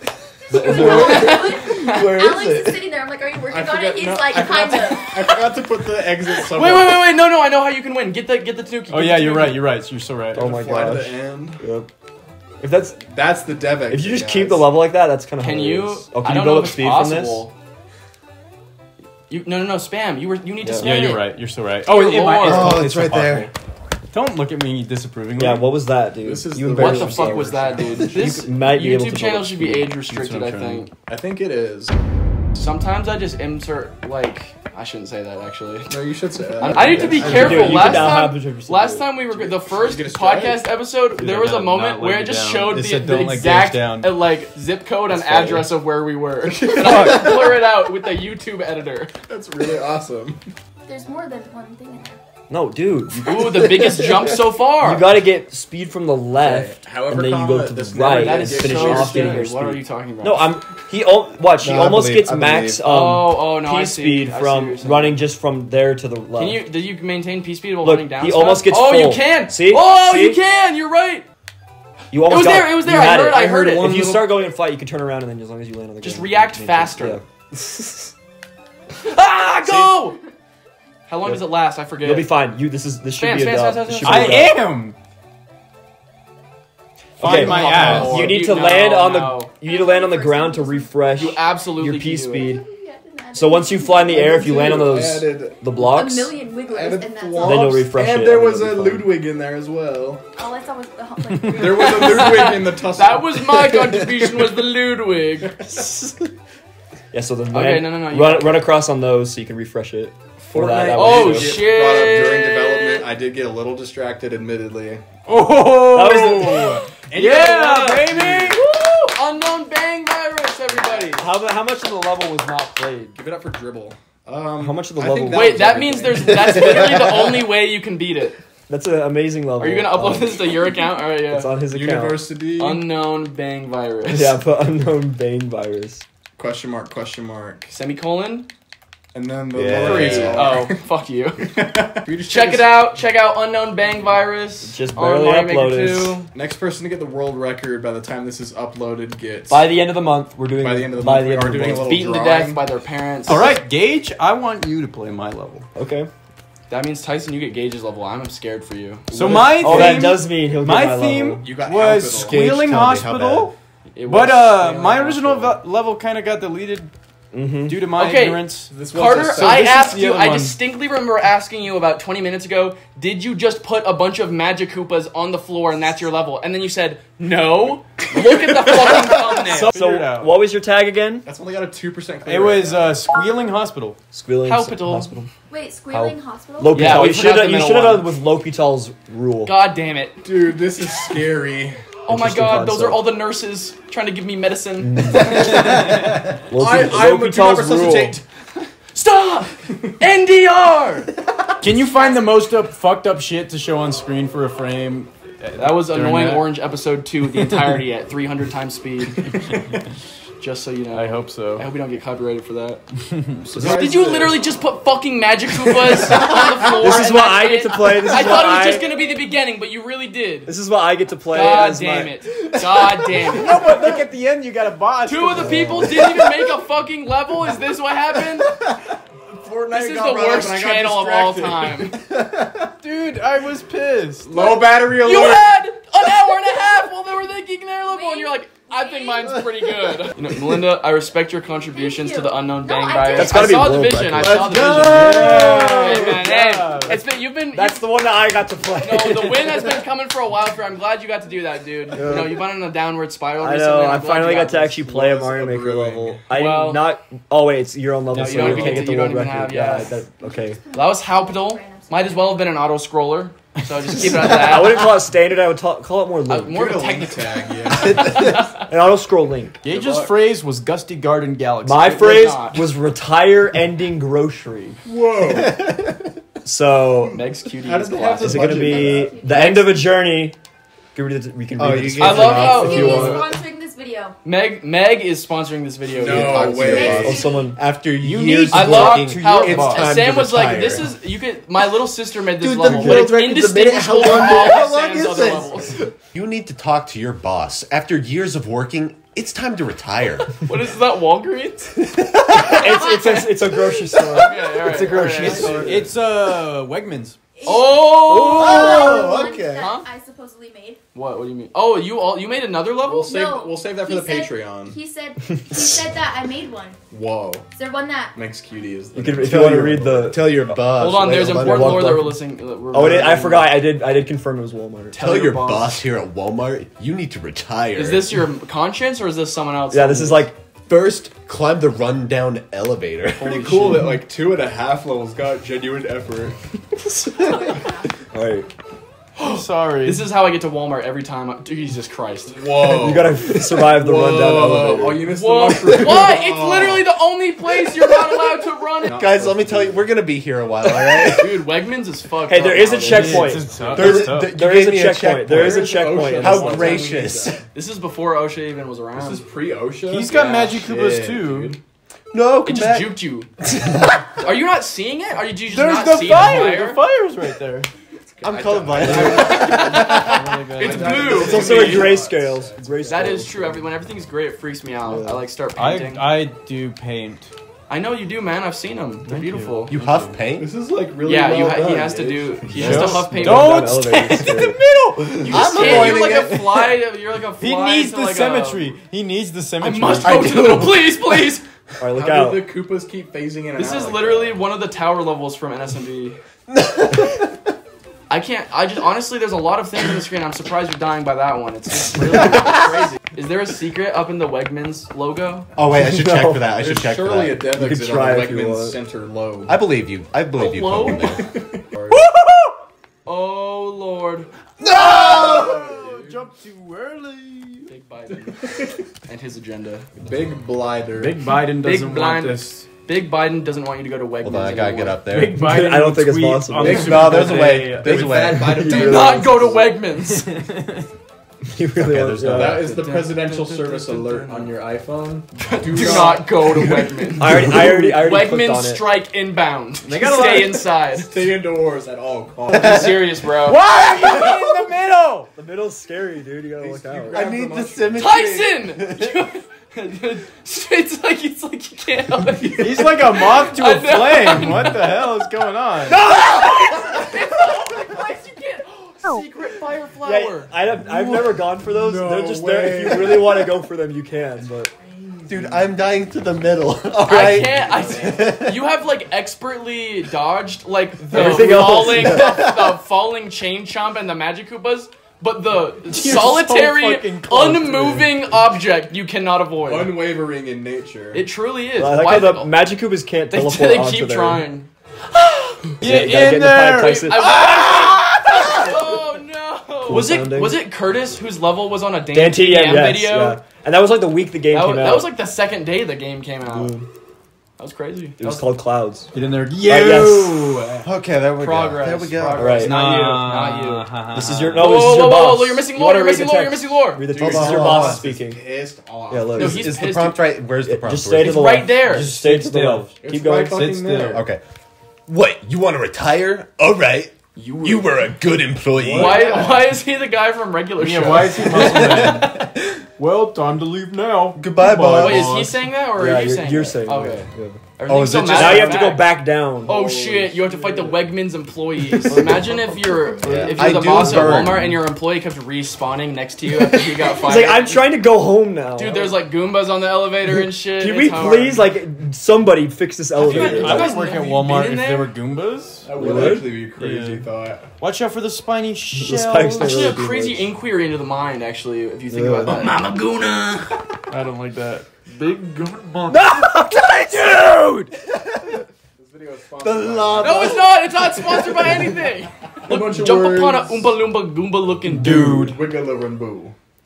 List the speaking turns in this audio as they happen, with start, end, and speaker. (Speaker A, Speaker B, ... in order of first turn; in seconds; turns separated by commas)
Speaker A: 0.5-2.8, Speaker B: 0.5-2.1, Speaker C: 0.6-5.4, Speaker D: 3.5-7.1, Speaker B: 6.5-9.7, Speaker E: 8.9-10.4, Speaker A: 10.3-11.9, Speaker D: 10.3-11.6, Speaker A: 12.6-13.0, Speaker D: 13.0-14.7, Speaker A: 13.9-17.5, Speaker B: 15.4-17.5, Speaker B: 19.3-21.2, Speaker A: 20.6-20.9, Speaker E: 20.8-23.5, Speaker B: 21.8-22.9, Speaker F: 22.4-23.5, Speaker E: 24.1-25.7, Speaker A: 25.4-29.9, Speaker D: 26.2-28.4, Speaker B: 26.8-30.9, Speaker E: 30.1-30.9, Speaker D: 31.1-31.9, Speaker B: 32.5-35.9, Speaker D: 35.9-38.1, Speaker A: 36.6-39.1, Speaker B: 36.6-49.1, Speaker E: 37.3-37.8, Speaker D: 39.3-40.6, Speaker E: 41.1-44.1, Speaker A: 45.1-45.7, Speaker D: 46.5-47.6, Speaker E: 46.8-47.2, Speaker D: 49.3-50.4, Speaker C: 50.9-52.2, Speaker A: 52.5-53.8, Speaker B: 53.2-55.1, Speaker A: 54.8-66.6, Speaker D: 56.4-59.5, Speaker B: 58.1-60.5, Speaker F: 61.6-62.9, Speaker B: 62.9-65.2, Speaker B: 66.3-71.2, Speaker A: 67.8-70.4, Speaker A: 72.1-78.1, Speaker B: 72.2-74.2, Speaker B: 76.0-77.2, Speaker B: 79.0-80.2, Speaker A: 79.6-80.0, Speaker B: 81.1-82.3, Speaker A: 81.2-84.6, Speaker B: 83.2-84.4, Speaker E: 84.0-85.0, Speaker E: 87.2-88.3, Speaker A: 87.2-92.6, Speaker B: 87.2-89.5, Speaker D: 87.3-88.4, Speaker C: 89.6-91.0, Speaker B: 91.2-92.5, Speaker C: 92.4-94.8, Speaker A: 93.3-96.3, Speaker D: 94.1-95.8, Speaker C: 95.8-97.9, Speaker D: 96.4-100.2, Speaker A: 97.4-99.1, Speaker C: 100.3-102.5, Speaker D: 101.5-103.7, Speaker B: 101.8-106.1, Speaker A: 107.1-111.6, Speaker B: 107.5-108.7, Speaker D: 110.4-115.0, Speaker B: 110.9-113.0, Speaker E: 115.2-118.6, Speaker A: 115.9-116.8, Speaker D: 117.0-118.6, Speaker B: 117.2-121.3, Speaker D: 120.7-121.0, Speaker A: 121.1-123.2, Speaker D: 123.1-127.2, Speaker A: 124.6-126.7, Speaker B: 125.3-128.4, Speaker A: 128.7-130.5, Speaker B: 129.6-131.5, Speaker A: 131.3-132.3, Speaker D: 131.7-132.9, Speaker B: 132.6-134.4, Speaker A: 134.1-136.0, Speaker D: 136.4-137.7, Speaker B: 137.7-138.5, Speaker D: 139.1-140.8, Speaker F: 139.5-140.3, Speaker A: 139.6-140.4, Speaker B: 139.8-141.5, Speaker D: 141.5-142.7, Speaker B: 142.3-146.3, Speaker A: 144.6-146.2, Speaker D: 146.3-149.6, Speaker A: 149.5-152.2, Speaker D: 150.6-152.6, Speaker B: 151.8-153.5, Speaker E: 153.2-155.7, Speaker A: 155.7-156.1, Speaker B: 156.7-159.9, Speaker E: 159.1-163.5, Speaker A: 159.6-161.5, Speaker D: 161.4-162.5, Speaker F: 162.1-163.5, Speaker B: 163.9-165.6, Speaker E: 164.0-166.9, Speaker A: 167.3-167.8, Speaker E: 167.7-168.7, Speaker B: 167.9-179.7, Speaker D: 168.7-169.9, Speaker E: 169.3-170.6, Speaker E: 179.4-180.3, Speaker A: 179.5-181.3, Speaker D: 181.2-183.0, Speaker E: 182.2-184.0, Speaker A: 184.1-185.3, Speaker B: 184.4-185.2, Speaker C: 185.5-187.1, Speaker A: 185.9-189.6, Speaker B: 186.7-188.1, Speaker B: 189.4-190.3, Speaker D: 190.2-191.8, Speaker B: 192.0-195.7, Speaker A: 192.1-193.1, Speaker A: 194.8-198.2, Speaker D: 195.4-198.2, Speaker B: 198.9-201.1, Speaker E: 201.6-206.5, Speaker C: 201.9-202.3, Speaker B: 205.6-209.3, Speaker E: 207.3-207.8, Speaker E: 209.2-209.8, Speaker B: 210.4-212.8, Speaker E: 210.9-211.6, Speaker A: 213.5-214.3, Speaker D: 213.5-214.3, Speaker B: 213.5-220.5, Speaker A: 216.6-218.9, Speaker A: 220.4-222.1, Speaker B: 221.3-223.7, Speaker E: 223.3-225.9, Speaker B: 225.1-228.5, Speaker A: 225.3-226.2, Speaker D: 229.3-232.7, Speaker B: 229.7-231.9, Speaker E: 232.8-234.3, Speaker D: 234.2-235.5, Speaker B: 234.3-247.9, Speaker C: 237.9-239.4, Speaker C: 241.7-243.5, Speaker A: 243.1-244.5, Speaker D: 244.2-246.0, Speaker E: 244.5-247.0, Speaker A: 247.5-249.8, Speaker B: 248.8-254.7, Speaker A: 251.9-252.4, Speaker A: 253.4-260.6, Speaker D: 254.6-256.2, Speaker B: 256.3-256.9, Speaker E: 258.1-258.7, Speaker B: 258.1-259.9, Speaker C: 260.2-262.5, Speaker B: 260.7-264.9, Speaker A: 264.2-266.7, Speaker B: 266.2-268.6, Speaker D: 266.5-268.3, Speaker A: 268.6-269.6, Speaker E: 269.6-272.0, Speaker B: 269.7-270.1, Speaker A: 271.6-274.8, Speaker B: 271.8-272.7, Speaker D: 274.8-275.6, Speaker F: 275.3-276.0, Speaker A: 276.4-277.2, Speaker B: 277.1-278.5, Speaker D: 277.6-279.1, Speaker A: 278.2-280.4, Speaker C: 278.5-279.5, Speaker B: 279.3-279.8, Speaker A: 280.9-283.4, Speaker F: 281.5-282.7, Speaker B: 282.0-283.2, Speaker C: 282.2-284.1, Speaker D: 282.7-283.1, Speaker B: 284.2-287.1, Speaker D: 285.9-287.4, Speaker F: 285.9-290.9, Speaker C: 286.6-287.4, Speaker A: 287.0-287.6, Speaker E: 288.0-289.9, Speaker B: 288.5-295.8, Speaker F: 292.4-300.3, Speaker B: 300.3-301.7, Speaker F: 301.8-302.8, Speaker A: 302.3-305.9, Speaker C: 302.6-303.3, Speaker B: 304.1-305.7, Speaker F: 305.2-305.8, Speaker E: 305.6-307.2, Speaker C: 307.4-310.8, Speaker B: 307.4-309.9, Speaker F: 308.1-309.6, Speaker D: 308.4-309.6, Speaker B: 310.9-313.1, Speaker C: 312.9-316.8, Speaker D: 312.9-314.8, Speaker D: 316.9-317.4, Speaker C: 317.5-318.1, Speaker D: 318.1-320.1, Speaker A: 318.9-320.4, Speaker F: 319.2-321.9, Speaker B: 320.8-323.6, Speaker A: 321.2-324.9, Speaker B: 324.9-325.8, Speaker F: 324.9-328.2, Speaker B: 327.8-330.3, Speaker A: 329.7-330.4, Speaker F: 330.7-333.4, Speaker B: 333.2-333.9, Speaker D: 333.2-336.4, Speaker A: 336.8-337.5, Speaker C: 337.1-337.9, Speaker A: 338.1-338.5, Speaker B: 339.1-342.4, Speaker E: 339.2-340.0, Speaker D: 342.3-346.9, Speaker A: 342.6-345.1, Speaker B: 345.1-349.0, Speaker F: 348.8-351.5, Speaker D: 348.8-349.9, Speaker B: 350.8-353.5, Speaker A: 352.2-356.8, Speaker E: 352.9-354.3, Speaker F: 353.7-355.6, Speaker D: 355.3-357.4, Speaker F: 356.1-357.4, Speaker B: 357.5-359.2, Speaker D: 358.9-361.6, Speaker E: 359.9-361.6, Speaker F: 362.1-364.0, Speaker B: 362.4-363.3, Speaker B: 364.1-366.8, Speaker E: 365.5-367.7, Speaker D: 368.2-369.5, Speaker F: 368.2-370.2, Speaker B: 368.8-371.9, Speaker E: 369.5-371.3, Speaker D: 370.5-373.4, Speaker A: 371.1-373.7, Speaker B: 372.9-376.2, Speaker A: 374.8-375.3, Speaker E: 375.5-377.3, Speaker B: 377.7-379.8, Speaker E: 379.1-380.0, Speaker F: 379.7-380.5, Speaker D: 380.3-382.4, Speaker B: 381.0-384.6, Speaker A: 382.4-384.6, Speaker E: 382.5-386.7, Speaker B: 385.1-388.7, Speaker F: 385.3-386.4, Speaker E: 387.4-390.6, Speaker B: 389.6-391.4, Speaker D: 390.1-390.8, Speaker A: 391.8-392.4, Speaker D: 391.8-394.4, Speaker B: 393.5-396.2, Speaker F: 396.5-397.2, Speaker B: 398.1-405.5, Speaker F: 405.6-407.5, Speaker A: 405.7-406.4, Speaker D: 406.5-409.6, Speaker A: 407.5-408.8, Speaker F: 409.5-411.3, Speaker B: 410.4-411.1, Speaker D: 410.8-412.0, Speaker E: 411.9-412.5, Speaker B: 413.0-414.3, Speaker F: 414.6-415.6, Speaker E: 414.7-417.7, Speaker D: 415.0-416.0, Speaker B: 417.7-418.4, Speaker D: 418.1-418.9, Speaker B: 419.0-419.9, Speaker D: 420.0-421.2, Speaker E: 420.9-422.7, Speaker B: 421.6-425.0, Speaker F: 424.2-425.4, Speaker E: 425.1-428.4, Speaker A: 425.3-426.9, Speaker D: 426.5-429.6, Speaker F: 426.7-428.6, Speaker A: 428.3-429.7, Speaker B: 428.6-430.3, Speaker E: 430.2-430.9, Speaker A: 431.5-432.7, Speaker E: 431.8-434.5, Speaker D: 432.3-437.4, Speaker B: 435.4-441.1, Speaker A: 437.2-438.8, Speaker E: 439.8-440.6, Speaker D: 440.9-443.1, Speaker B: 442.5-443.6, Speaker E: 443.4-445.3, Speaker A: 445.3-447.2, Speaker D: 446.6-448.1, Speaker F: 447.1-449.1, Speaker B: 448.0-455.1, Speaker E: 452.6-456.0, Speaker A: 455.9-456.8, Speaker B: 455.9-460.5, Speaker A: 460.0-464.7, Speaker D: 460.8-463.5, Speaker D: 465.1-465.6, Speaker F: 465.3-468.6, Speaker B: 467.1-479.9, Speaker D: 467.6-467.9, Speaker A: 471.1-472.4, Speaker E: 475.9-478.2, Speaker D: 479.6-481.2, Speaker B: 481.1-482.5, Speaker A: 481.8-484.4, Speaker B: 483.3-486.0, Speaker E: 485.8-488.7, Speaker A: 485.8-487.4, Speaker B: 487.0-493.4, Speaker A: 489.9-490.6, Speaker A: 492.1-495.1, Speaker B: 494.5-496.8, Speaker A: 496.4-496.9, Speaker B: 497.6-498.5, Speaker A: 498.2-499.1, Speaker E: 499.1-500.8, Speaker A: 499.6-500.6, Speaker F: 500.8-502.5, Speaker B: 501.4-503.9, Speaker A: 502.3-502.8, Speaker E: 502.5-504.7, Speaker A: 504.1-508.4, Speaker B: 504.6-507.0, Speaker D: 507.1-509.5, Speaker F: 507.1-508.1, Speaker A: 509.1-509.7, Speaker B: 509.4-510.2, Speaker F: 509.4-511.4, Speaker A: 510.6-513.7, Speaker B: 511.2-512.1, Speaker E: 511.9-514.2, Speaker D: 513.0-514.2, Speaker F: 514.0-514.4, Speaker F: 515.1-519.3, Speaker B: 517.4-517.9, Speaker A: 518.8-519.4, Speaker B: 518.9-522.3, Speaker D: 519.1-519.6, Speaker E: 520.8-525.6, Speaker F: 521.5-522.3, Speaker F: 524.4-525.3, Speaker B: 525.0-538.0, Speaker A: 526.0-527.6, Speaker F: 527.9-528.8, Speaker A: 528.3-529.8, Speaker D: 528.5-528.9, Speaker D: 529.7-530.9, Speaker A: 532.2-532.6, Speaker C: 532.9-533.7, Speaker F: 533.2-534.8, Speaker A: 536.5-539.1, Speaker B: 538.7-541.6, Speaker A: 540.2-543.9, Speaker E: 543.2-545.9, Speaker B: 543.2-545.1, Speaker D: 545.8-547.7, Speaker A: 545.9-546.5, Speaker E: 546.7-549.9, Speaker A: 548.9-550.5, Speaker B: 549.5-553.8, Speaker A: 552.1-552.7, Speaker E: 554.1-556.2, Speaker A: 556.1-557.9, Speaker F: 558.1-558.6, Speaker D: 559.0-560.5, Speaker F: 559.6-561.5, Speaker B: 560.2-565.3, Speaker D: 562.6-564.0, Speaker A: 564.8-565.6, Speaker D: 565.0-566.5